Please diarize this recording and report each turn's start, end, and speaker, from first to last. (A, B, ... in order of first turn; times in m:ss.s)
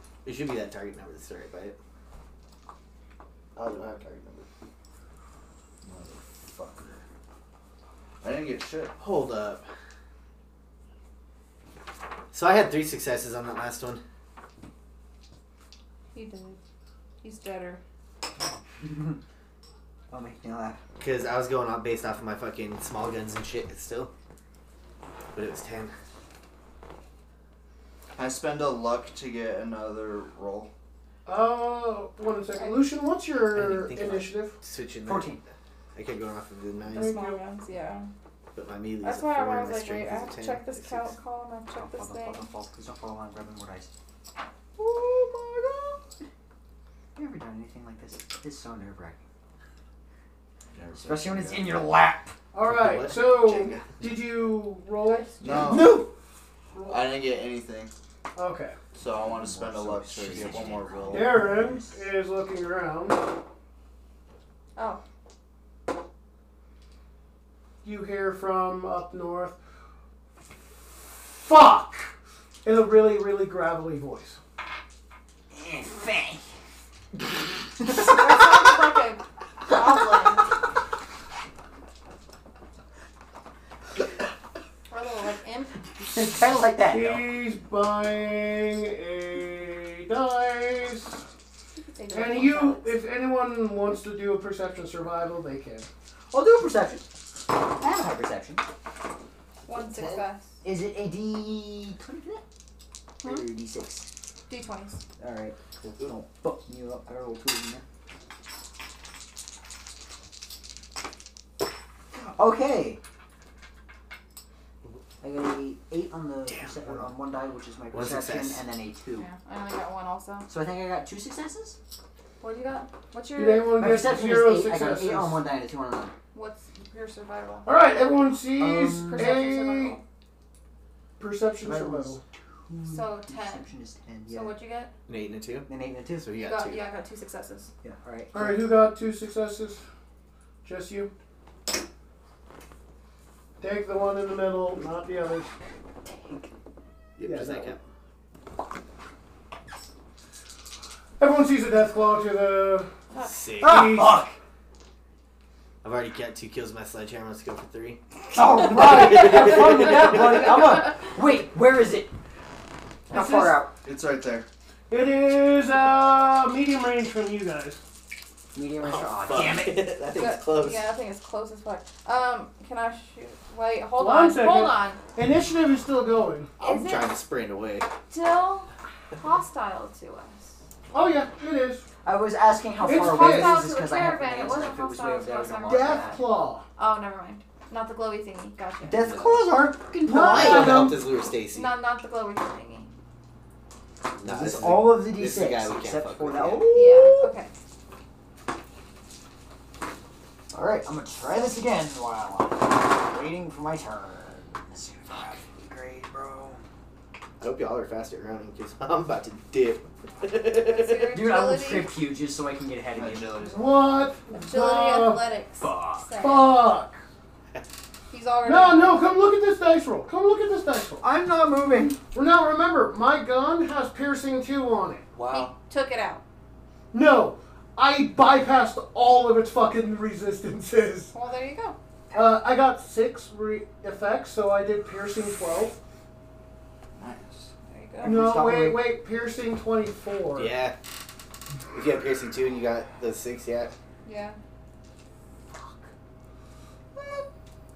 0:00.2-0:01.8 A
0:03.6-0:04.4 A
0:05.8-0:07.0 B
0:08.2-0:09.0 B
0:09.0-0:09.6 A
0:12.3-0:14.0 A
0:16.1-0:16.6 C
0:17.2-0:17.8 C
0:18.8-0:19.2 D
0:20.1-0:20.8 D
0:21.0-0:24.1 A
0:25.3-0:25.9 A
0:28.2-0:30.7 B
0:31.2-0:34.6 E
0:32.6-0:32.8 C
0:33.5-0:35.4 A
0:35.0-0:35.4 D
0:35.9-0:37.1 A
0:36.9-0:37.4 E
0:36.9-0:38.1 C
0:38.5-0:41.1 A
0:39.0-0:42.4 C
0:41.8-0:43.9 D
0:44.8-0:46.0 D
0:47.2-0:49.2 D
0:50.7-0:51.8 B
0:50.9-0:52.4 D
0:52.5-0:56.0 E
0:52.7-0:53.9 A
0:55.0-0:55.3 C
0:55.4-0:56.0 B
0:55.5-0:56.1 D
0:56.7-0:57.1 E
0:56.8-0:57.9 B
0:58.4-0:58.8 E
0:58.9-1:01.4 B
0:59.1-1:02.1 D
1:01.1-1:03.2 E
1:07.8-1:09.6 E
1:11.0-1:12.1 E
1:12.6-1:14.4 E
1:15.5-1:16.4 D
1:17.8-1:20.5 C
1:24.9-1:25.8 C
1:26.0-1:27.2 D
1:26.9-1:31.2 E
1:31.8-1:33.0 C
1:32.1-1:35.9 E
1:36.3-1:38.6 D
1:39.6-1:40.6 C
1:39.8-1:42.4 D
1:43.2-1:44.1 D
1:44.5-1:45.0 C
1:45.2-1:47.8 D
1:52.1-1:53.0 D
1:55.2-1:59.3 D
1:56.5-1:57.0 A
1:57.9-1:58.6 A
1:59.2-2:00.5 C
2:00.5-2:01.8 D
2:02.4-2:03.7 C
2:03.4-2:05.4 E
2:03.8-2:06.1 D
2:06.3-2:07.7 C
2:07.6-2:10.0 E
2:08.6-2:09.5 D
2:09.0-2:10.0 C
2:11.2-2:12.2 E
2:11.6-2:14.5 D
2:12.8-2:13.6 C
2:14.3-2:14.9 C
2:15.1-2:16.8 A
2:15.7-2:16.3 D
2:16.3-2:17.7 C
2:17.8-2:18.7 D
2:18.3-2:19.8 E
2:20.6-2:21.1 E
2:23.6-2:25.5 E
2:26.0-2:26.5 D
2:27.2-2:27.8 A
2:27.2-2:27.8 E
2:31.2-2:32.9 E
2:33.2-2:33.9 A
2:33.6-2:34.4 D
2:33.6-2:34.3 E
2:35.8-2:38.0 A
2:38.3-2:42.1 D
2:38.6-2:40.5 A
2:43.1-2:43.6 E
2:43.1-2:43.7 D
2:43.8-2:44.5 B
2:44.9-2:47.8 E
2:48.5-2:49.9 D
2:48.8-2:50.9 A
2:50.1-2:55.0 C
2:54.0-2:56.5 E
2:56.6-2:57.1 C
2:56.6-2:57.9 A
2:58.1-3:00.5 C
3:00.9-3:01.9 E
3:02.0-3:06.2 D
3:02.8-3:06.2 C
3:02.8-3:03.7 E
3:05.7-3:06.6 E
3:06.8-3:09.5 C
3:08.8-3:10.9 D
3:10.0-3:11.0 E
3:10.1-3:11.7 A
3:11.4-3:12.9 C
3:14.2-3:17.3 D
3:14.2-3:16.7 A
3:16.7-3:17.5 C
3:20.5-3:26.6 D
3:27.4-3:31.1 A
3:30.6-3:31.9 C
3:31.1-3:33.5 D
3:32.9-3:34.1 B
3:33.5-3:35.3 E
3:34.4-3:36.6 C
3:35.6-3:36.2 D
3:36.2-3:37.0 E
3:38.1-3:39.2 C
3:38.4-3:41.0 E
3:41.0-3:42.0 D
3:42.1-3:45.0 E
3:45.1-3:45.5 D
3:45.3-3:46.2 C
3:46.9-3:51.1 E
3:51.1-3:51.8 C
3:52.1-3:55.8 E
3:57.0-3:57.5 B
3:57.7-3:58.2 C
3:58.0-3:58.9 D
3:58.0-4:00.6 E
4:00.4-4:00.7 A
4:01.7-4:03.7 A
4:04.0-4:04.4 C
4:07.0-4:07.2 E